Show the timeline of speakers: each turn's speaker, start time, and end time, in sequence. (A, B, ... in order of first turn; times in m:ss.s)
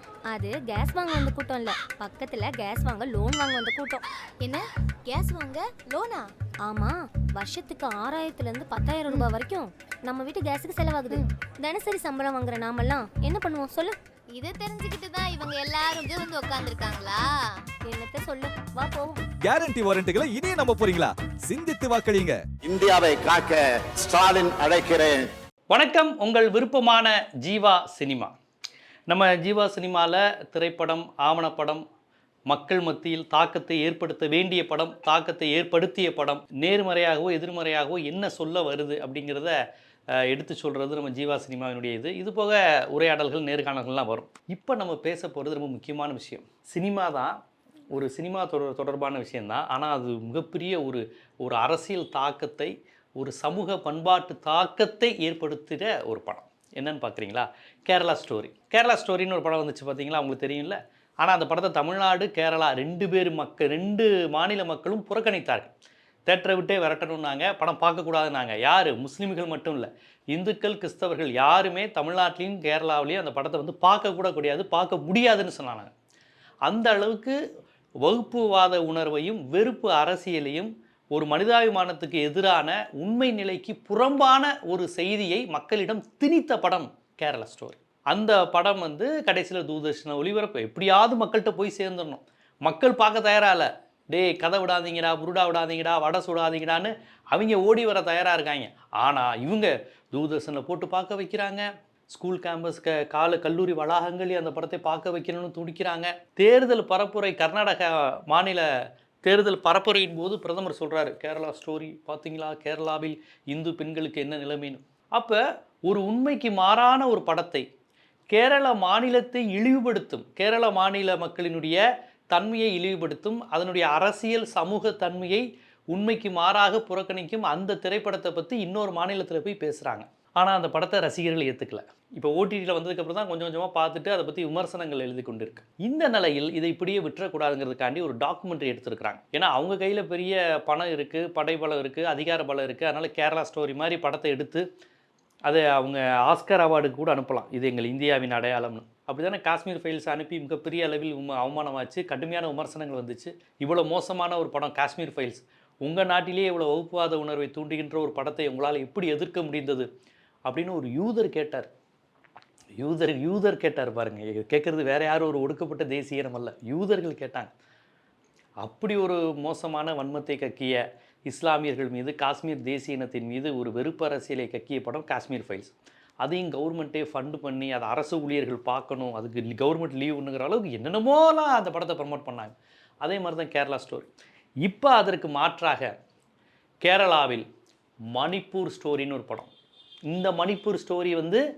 0:00.3-0:04.0 A
0:04.4-0:06.3 B
0:06.6-0:14.0 A
0:14.3-0:17.2 B
0:17.9-0:19.2 A
0:19.4-0:22.5 C
0:22.6-0:25.3 D
0:25.7-0:28.3 E
0:29.1-0:31.8 E
0:32.5-0:39.6 E
0:40.1-0:47.4 E
0:47.9-1:05.7 E
1:06.3-1:15.9 E
1:16.6-1:17.4 E
1:18.0-1:48.7 E
1:49.2-1:57.7 E
1:58.3-2:01.8 E
2:02.3-2:24.7 E
2:25.5-2:39.9 E
2:40.5-2:41.7 E
2:42.8-2:47.5 E
2:48.6-3:04.1 E
3:04.6-3:05.9 E
3:06.8-3:07.4 E
3:08.1-3:09.5 E
3:10.1-3:11.4 E